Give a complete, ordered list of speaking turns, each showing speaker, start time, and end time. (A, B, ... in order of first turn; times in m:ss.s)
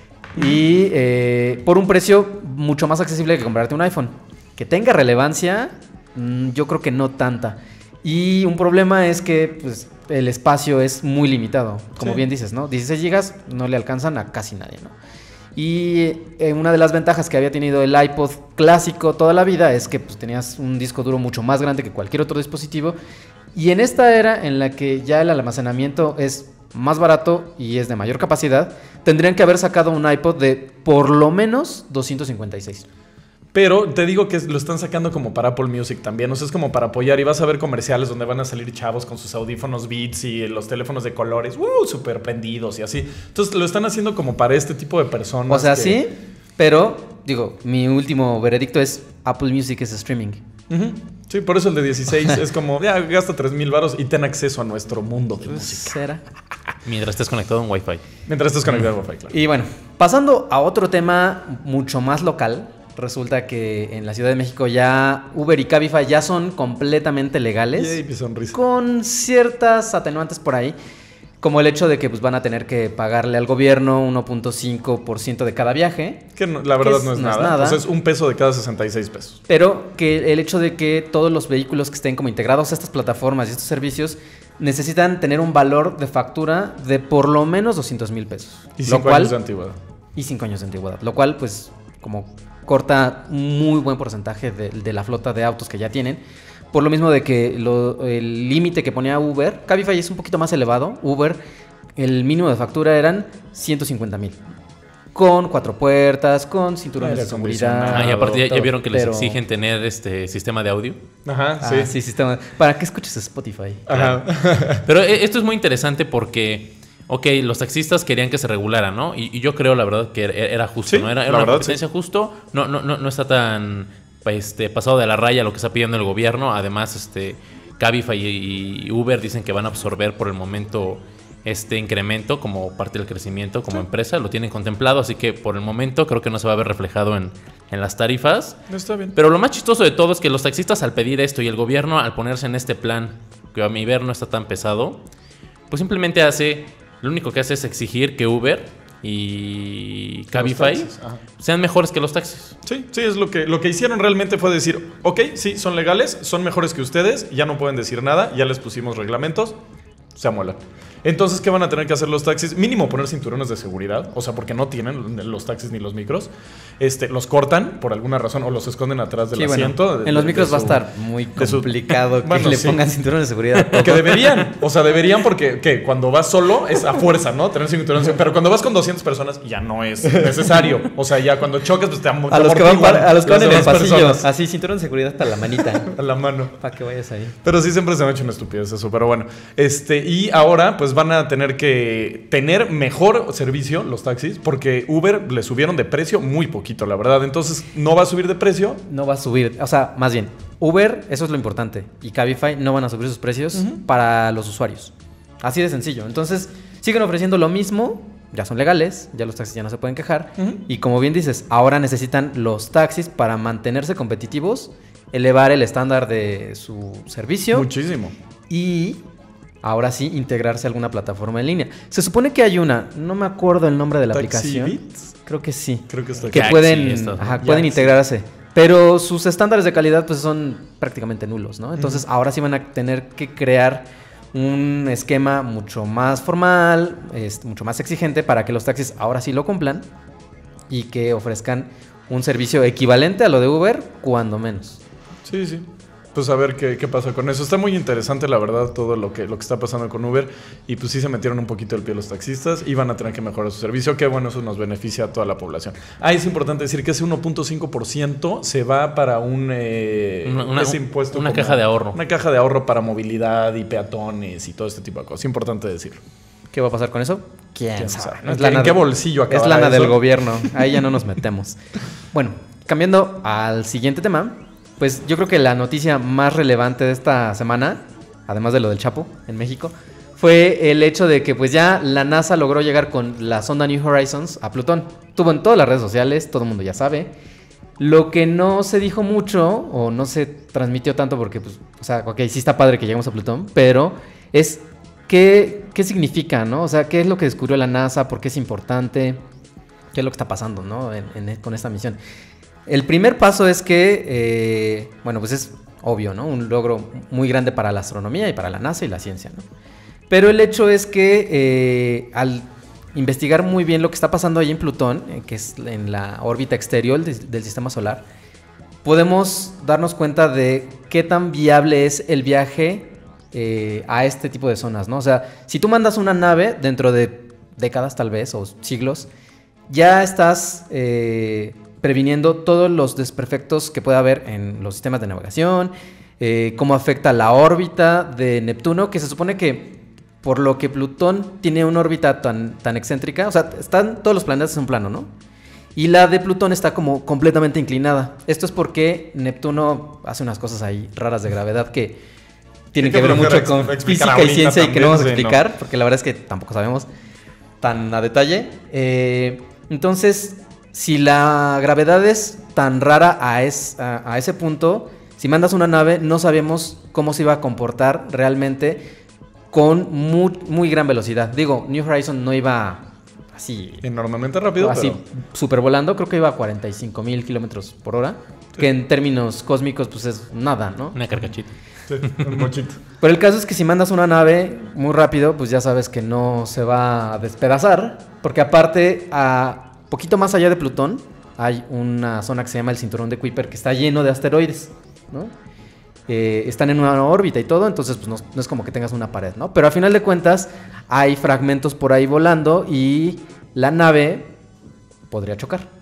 0:00.3-0:15.0 A
0:15.6-0:23.0 A
0:23.5-0:32.9 A
0:33.5-0:46.0 B
0:45.5-0:50.4 A
0:50.7-0:56.0 B
0:55.4-0:56.2 A
0:56.8-0:58.0 C
0:58.3-0:59.3 B
0:59.3-1:08.0 A
1:07.8-1:08.6 B
1:08.5-1:10.8 A
1:11.4-1:16.2 A
1:16.4-1:19.4 B
1:16.8-1:17.8 A
1:19.5-1:29.4 A
1:28.8-1:29.8 B
1:30.2-1:36.2 A
1:36.7-1:41.4 A
1:42.0-1:44.4 A
1:45.1-1:49.4 A
1:47.0-1:48.5 B
1:47.9-1:51.0 C
1:51.2-1:51.9 B
1:51.6-1:54.0 A
1:53.9-1:54.9 B
1:53.9-1:54.2 C
1:54.8-2:18.6 C
2:00.9-2:01.8 B
2:18.7-2:19.2 B
2:19.2-2:25.0 C
2:25.7-2:32.6 C
2:30.3-2:31.2 B
2:32.6-2:39.6 B
2:40.2-2:50.8 B
2:49.4-2:54.4 A
2:51.4-2:52.8 B
2:53.7-3:04.3 B
3:02.3-3:05.9 A
3:05.8-3:06.6 B
3:06.6-3:07.4 A
3:07.4-3:18.8 B
3:18.9-3:37.7 A
3:23.6-3:23.8 B
3:37.5-3:38.2 B
3:38.5-3:39.0 A
3:39.6-3:59.8 A
3:44.1-3:45.0 B
3:45.9-3:46.6 B
3:46.3-3:47.6 C
3:47.4-3:47.9 B
3:51.8-3:52.0 B
4:00.7-4:04.8 A
4:05.2-4:26.0 B
4:20.2-4:22.0 C
4:26.5-4:31.6 A
4:27.8-4:30.6 B
4:32.1-4:47.1 A
4:47.8-4:59.2 A
4:59.9-5:02.0 A
5:02.7-5:09.4 A
5:10.1-5:18.0 A
5:18.8-5:29.1 A
5:29.7-5:45.1 A
5:45.8-5:52.0 A
5:52.7-5:56.9 A
5:52.8-5:55.4 B
5:57.6-6:08.8 A
6:09.5-6:13.8 A
6:13.8-6:15.0 B
6:14.6-6:21.0 A
6:21.0-6:22.5 C
6:21.9-6:22.8 B
6:23.0-6:35.3 A
6:36.1-6:44.3 A
6:45.1-6:45.7 A